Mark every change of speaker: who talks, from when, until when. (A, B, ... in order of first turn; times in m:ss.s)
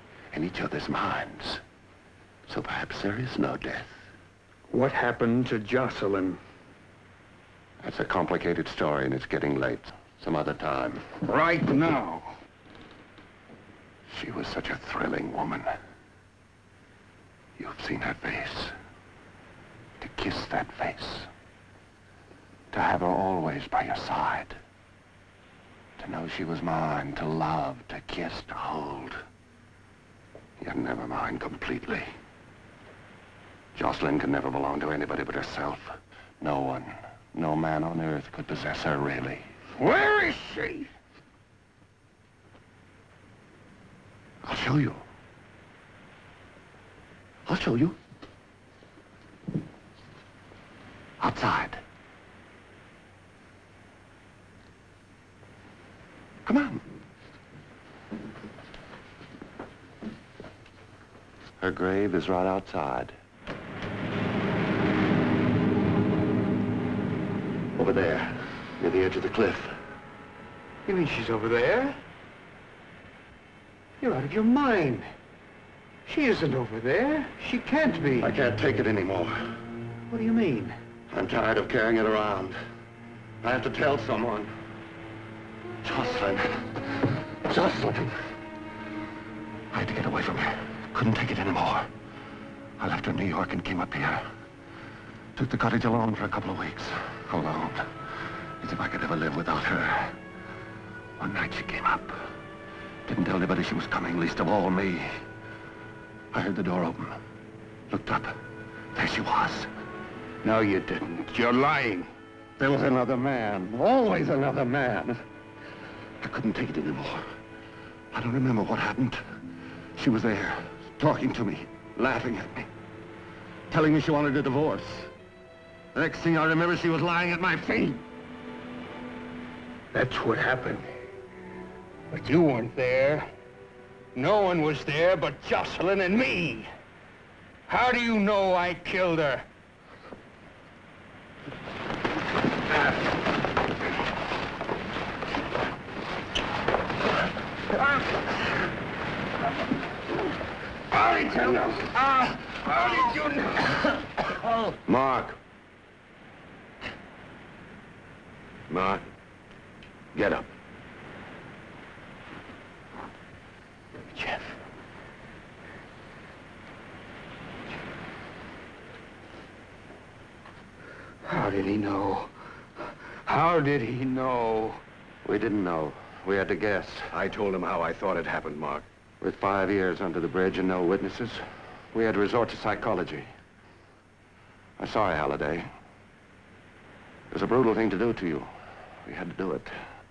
0:00.3-0:01.6 A
0:02.5-0:03.9 A
0:04.7-0:06.4 B
0:07.8-0:11.1 A
0:11.2-0:12.3 B
0:14.1-0:15.7 A
0:17.6-0:18.7 A
0:20.0-0:21.3 A
0:22.7-0:24.6 A
0:26.0-0:29.2 A
0:30.6-0:32.1 A
0:33.7-0:39.5 A
0:39.8-0:40.9 B
0:44.4-0:45.0 A
0:47.4-0:48.0 A
0:51.2-0:51.8 A
0:56.4-0:56.8 A
1:01.6-1:03.1 A
1:07.8-1:09.8 A
1:10.8-1:12.0 B
1:14.0-1:15.1 B
1:16.0-1:18.3 B
1:18.2-1:19.5 A
1:20.1-1:20.7 B
1:21.1-1:22.6 A
1:23.4-1:24.5 A
1:25.8-1:28.2 A
1:29.7-1:31.9 A
1:32.8-1:34.3 A
1:35.4-1:37.9 A
1:38.6-1:40.2 A
1:41.2-1:42.2 A
1:43.0-1:45.2 A
1:46.3-1:47.2 A
1:47.9-1:48.4 A
1:48.9-1:49.7 A
1:50.4-1:52.1 B
1:52.6-1:55.2 A
1:56.2-1:57.3 A
1:58.1-1:59.2 A
2:00.0-2:02.7 A
2:03.7-2:05.1 A
2:05.9-2:08.0 A
2:09.9-2:10.8 B
2:12.1-2:13.3 B
2:14.1-2:16.7 B
2:17.7-2:19.4 B
2:30.9-2:33.8 B
2:34.3-2:35.4 A
2:38.7-2:39.1 A
2:40.1-2:40.5 A
2:44.1-2:44.6 B
2:51.2-2:54.8 B
2:55.2-3:03.3 A
3:04.8-3:05.7 A
3:07.3-3:09.8 A